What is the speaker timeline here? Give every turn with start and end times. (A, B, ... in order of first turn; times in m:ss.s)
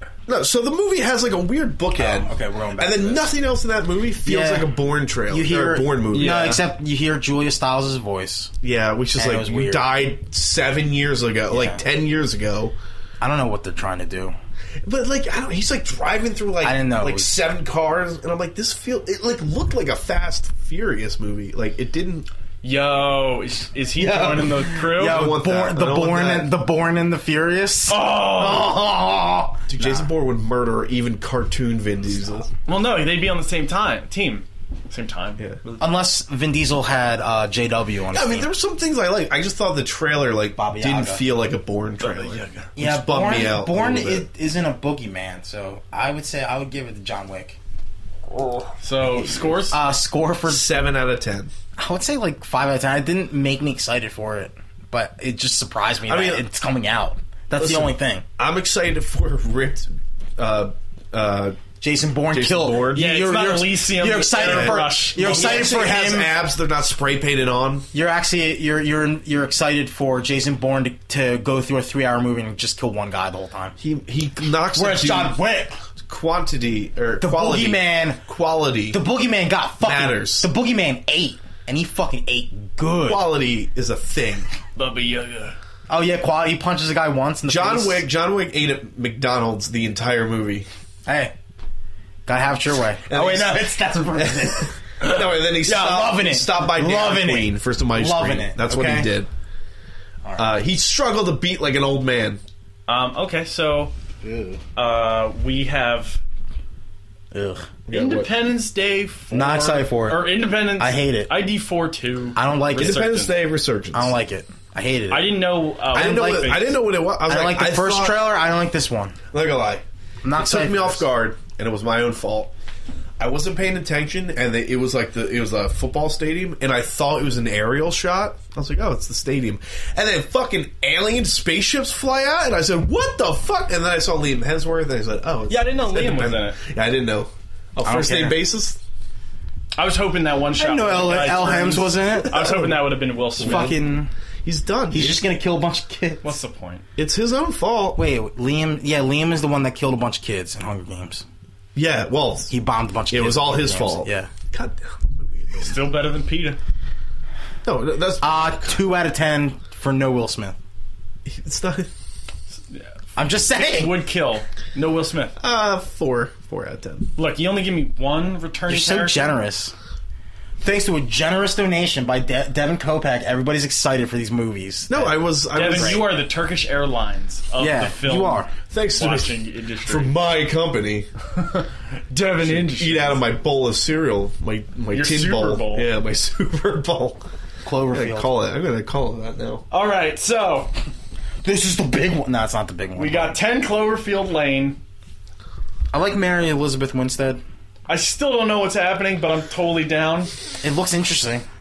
0:00.3-0:06.6 A
0:02.0-0:03.3 B
0:04.2-0:04.7 B
0:05.3-0:08.5 B
0:06.1-0:06.5 C
0:08.6-0:12.7 A
0:09.1-0:09.9 B
0:11.5-0:11.8 B
0:13.2-0:14.3 B
0:14.8-0:22.3 A
0:16.6-0:17.4 B
0:22.6-0:25.3 C
0:24.0-0:26.5 A
0:24.0-0:30.1 B
0:27.9-0:28.8 C
0:29.7-0:32.5 A
0:32.6-0:35.4 C
0:35.4-0:35.7 A
0:35.8-0:38.5 B
0:38.1-0:44.3 A
0:40.6-0:41.2 B
0:42.0-0:42.8 C
0:42.8-0:47.6 B
0:48.3-0:48.6 A
0:48.8-0:49.8 C
0:49.7-0:50.7 B
0:50.5-0:51.5 A
0:51.8-0:58.2 B
0:56.0-0:56.4 A
0:57.6-1:01.6 A
1:01.8-1:06.4 B
1:02.3-1:03.2 A
1:02.9-1:05.9 C
1:04.3-1:07.9 A
1:07.9-1:13.8 B
1:13.8-1:15.4 A
1:14.7-1:15.8 B
1:16.0-1:19.0 A
1:17.2-1:18.2 B
1:18.9-1:23.2 B
1:19.8-1:20.5 A
1:23.0-1:24.5 A
1:24.8-1:25.6 C
1:25.9-1:28.0 B
1:27.4-1:30.7 A
1:31.0-1:31.3 B
1:32.2-1:39.1 B
1:33.1-1:39.3 A
1:40.2-1:40.5 B
1:40.4-1:42.4 A
1:42.9-1:43.9 C
1:44.2-1:44.6 A
1:44.8-1:46.2 C
1:47.3-1:47.7 B
1:47.9-1:48.3 A
1:47.9-1:53.4 C
1:49.3-1:51.4 B
1:52.4-1:53.1 B
1:52.8-1:54.2 A
1:53.9-1:59.2 B
1:55.1-1:56.8 C
1:55.9-1:58.2 A
1:59.3-2:02.5 A
2:00.2-2:01.1 B
2:03.2-2:18.8 A
2:15.5-2:16.6 C
2:17.8-2:18.4 B
2:19.7-2:23.8 C
2:20.5-2:22.6 B
2:21.2-2:22.8 A
2:23.4-2:23.8 A
2:23.4-2:24.1 B
2:24.4-2:25.3 A
2:24.9-2:26.3 B
2:26.2-2:26.8 C
2:27.0-2:28.0 A
2:28.0-2:31.2 B
2:31.7-2:32.5 A
2:32.5-2:34.3 B
2:33.1-2:35.8 A
2:35.6-2:36.6 C
2:37.6-2:38.9 A
2:38.2-2:40.6 B
2:41.2-2:41.9 A
2:43.2-2:44.0 B
2:43.5-2:45.4 C
2:45.4-2:47.1 A
2:47.2-2:49.3 C
2:48.7-2:49.7 B
2:50.6-2:56.1 B
2:54.9-2:56.1 A
2:55.5-3:00.2 C
2:57.6-2:58.5 B
2:58.7-3:01.1 A
3:01.3-3:03.2 C
3:02.4-3:07.2 A
3:04.9-3:05.9 C
3:07.6-3:08.3 B
3:07.9-3:09.6 A
3:09.7-3:10.7 C
3:11.4-3:13.4 B
3:13.0-3:14.8 C
3:15.9-3:17.4 B
3:17.9-3:20.3 C
3:20.6-3:21.4 B